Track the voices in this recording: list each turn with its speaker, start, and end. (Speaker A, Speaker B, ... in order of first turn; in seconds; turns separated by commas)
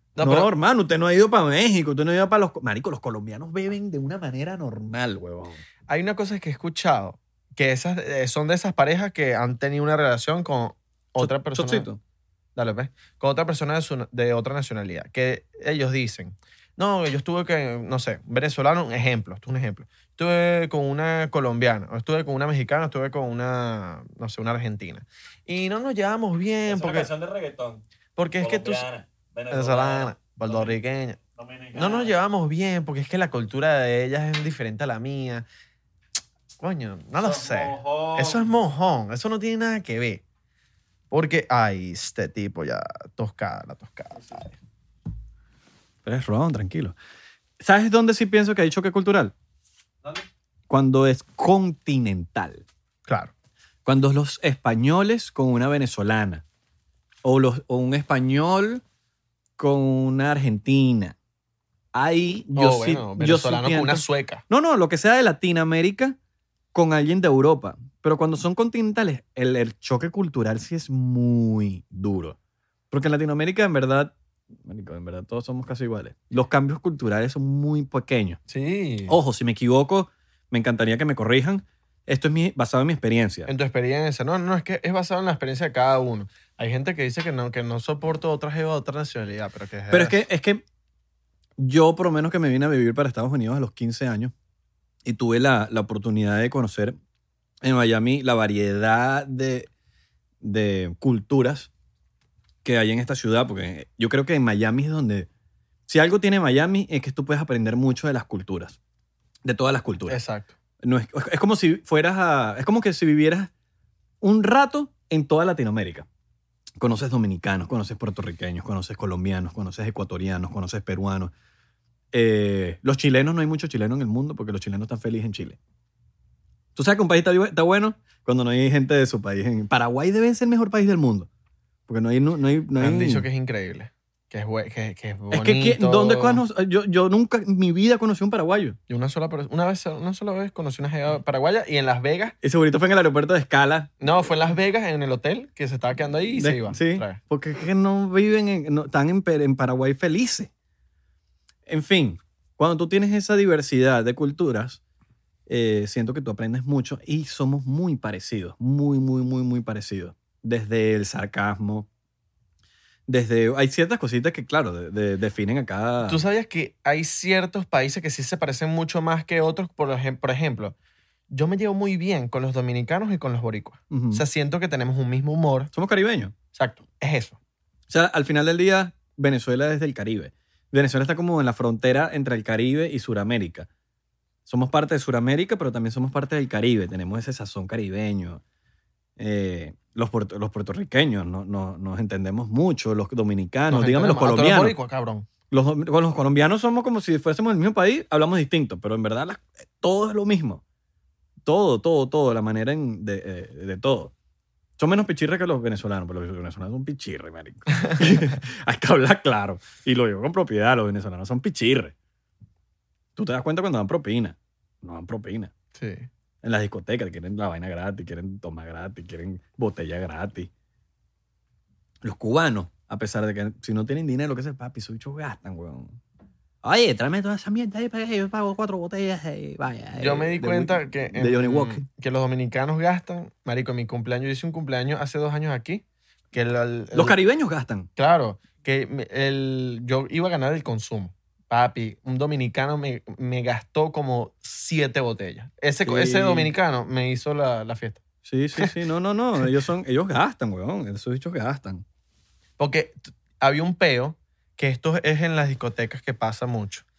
Speaker A: 0.2-0.5, Speaker B: 0.2-5.6, Speaker A: 5.9-11.9, Speaker B: 11.2-12.0, Speaker A: 12.6-27.1, Speaker B: 26.7-27.9, Speaker A: 28.2-28.9, Speaker B: 28.4-30.8, Speaker A: 29.5-31.2, Speaker B: 31.4-32.1, Speaker A: 31.7-35.5, Speaker A: 36.6-40.2, Speaker B: 37.2-38.5, Speaker A: 41.1-44.6, Speaker B: 46.0-47.0, Speaker B: 47.6-49.3, Speaker B: 50.1-52.6, Speaker A: 53.1-53.3, Speaker B: 53.9-56.4, Speaker B: 57.2-58.8, Speaker B: 59.6-61.2, Speaker B: 61.9-66.2, Speaker A: 62.5-64.4, Speaker B: 66.7-72.4, Speaker B: 72.9-74.1, Speaker B: 74.6-78.4, Speaker A: 78.5-79.2, Speaker B: 79.1-83.5, Speaker A: 83.5-90.2, Speaker B: 89.9-90.6, Speaker B: 91.6-94.3, Speaker B: 95.1-97.0, Speaker B: 97.6-99.7, Speaker B: 100.4-101.7, Speaker B: 102.6-105.3, Speaker B: 105.9-108.8, Speaker B: 109.5-110.2, Speaker A: 110.1-110.5, Speaker B: 110.8-113.5, Speaker B: 114.2-116.1, Speaker B: 116.8-121.3, Speaker B: 122.1-125.6, Speaker B: 126.8-131.3, Speaker B: 131.9-133.3, Speaker A: 132.8-136.4, Speaker B: 135.3-138.8, Speaker A: 138.9-142.3, Speaker B: 142.4-143.9, Speaker A: 144.0-147.2, Speaker B: 146.4-150.5, Speaker B: 151.7-154.8, Speaker B: 155.5-161.9, Speaker B: 163.1-166.2, Speaker A: 166.1-170.8, Speaker A: 171.3-175.7, Speaker B: 173.9-174.2, Speaker B: 175.7-176.3, Speaker A: 176.5-177.4, Speaker B: 177.9-183.7, Speaker B: 184.5-188.4, Speaker B: 189.2-194.8, Speaker A: 193.7-195.3, Speaker B: 195.5-200.6, Speaker B: 201.4-204.1, Speaker B: 204.8-211.9, Speaker A: 207.8-208.2, Speaker B: 213.2-215.5, Speaker A: 215.7-216.1, Speaker B: 216.4-220.5, Speaker B: 222.0-226.0, Speaker B: 226.6-231.8, Speaker A: 229.9-237.2, Speaker B: 236.9-237.9, Speaker A: 238.0-248.0, Speaker B: 245.8-246.5, Speaker B: 248.2-251.8, Speaker A: 252.6-256.9